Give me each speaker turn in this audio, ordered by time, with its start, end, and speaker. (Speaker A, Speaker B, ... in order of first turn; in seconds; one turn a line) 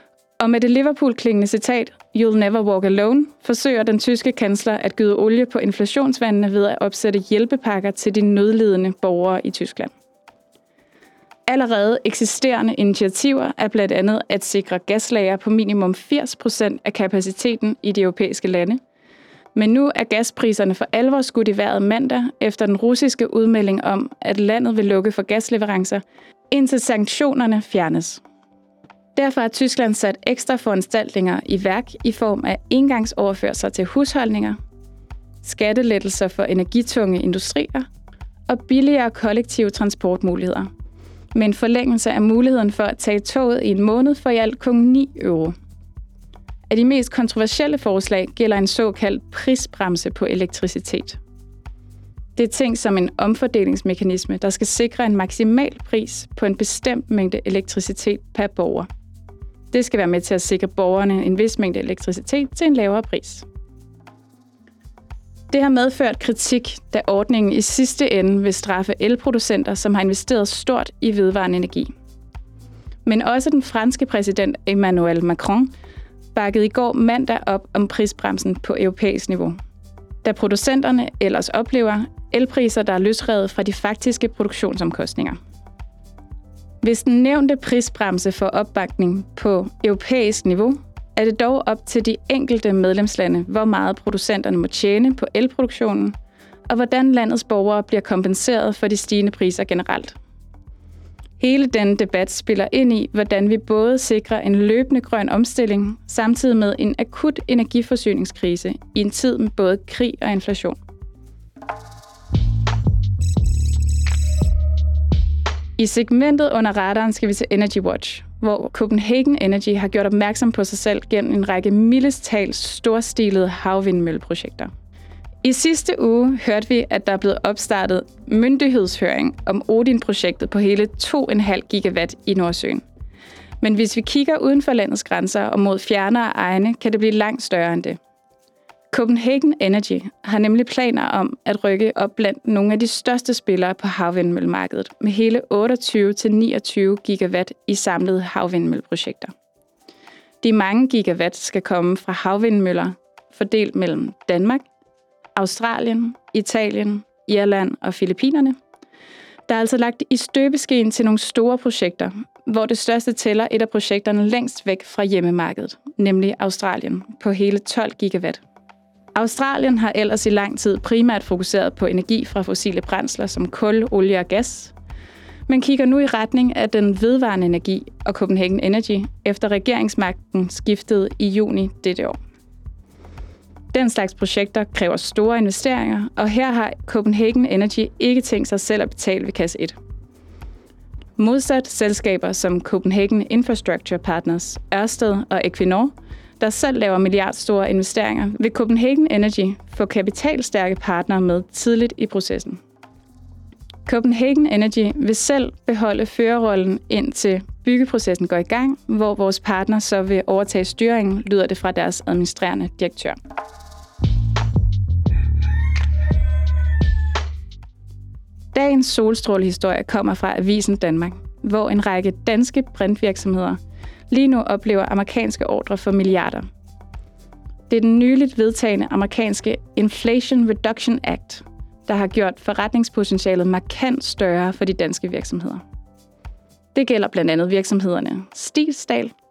Speaker A: 0.4-9.9
Speaker A: 11.5-18.8
Speaker A: 19.6-28.2
Speaker A: 29.1-34.6
Speaker A: 35.4-37.9
Speaker A: 38.5-40.7
Speaker A: 41.3-45.5
Speaker A: 46.7-51.2
Speaker A: 52.4-58.9
Speaker A: 59.7-63.5
Speaker A: 65.5-71.9
Speaker A: 73.0-75.7
Speaker A: 76.3-79.6
Speaker A: 80.2-85.4
Speaker A: 86.8-96.2
Speaker A: 96.7-100.2
Speaker A: 101.4-110.8
Speaker A: 115.8-124.7
Speaker A: 125.4-132.8
Speaker A: 133.6-138.0
Speaker A: 138.9-149.3
Speaker A: 150.4-154.7
Speaker A: 155.4-158.6
Speaker A: 159.5-168.4
Speaker A: 169.2-174.7
Speaker A: 175.5-182.2
Speaker A: 183.7-189.8
Speaker A: 191.2-202.6
Speaker A: 203.9-213.2
Speaker A: 218.5-223.6
Speaker A: 224.1-226.5
Speaker A: 227.7-235.6
Speaker A: 236.7-239.1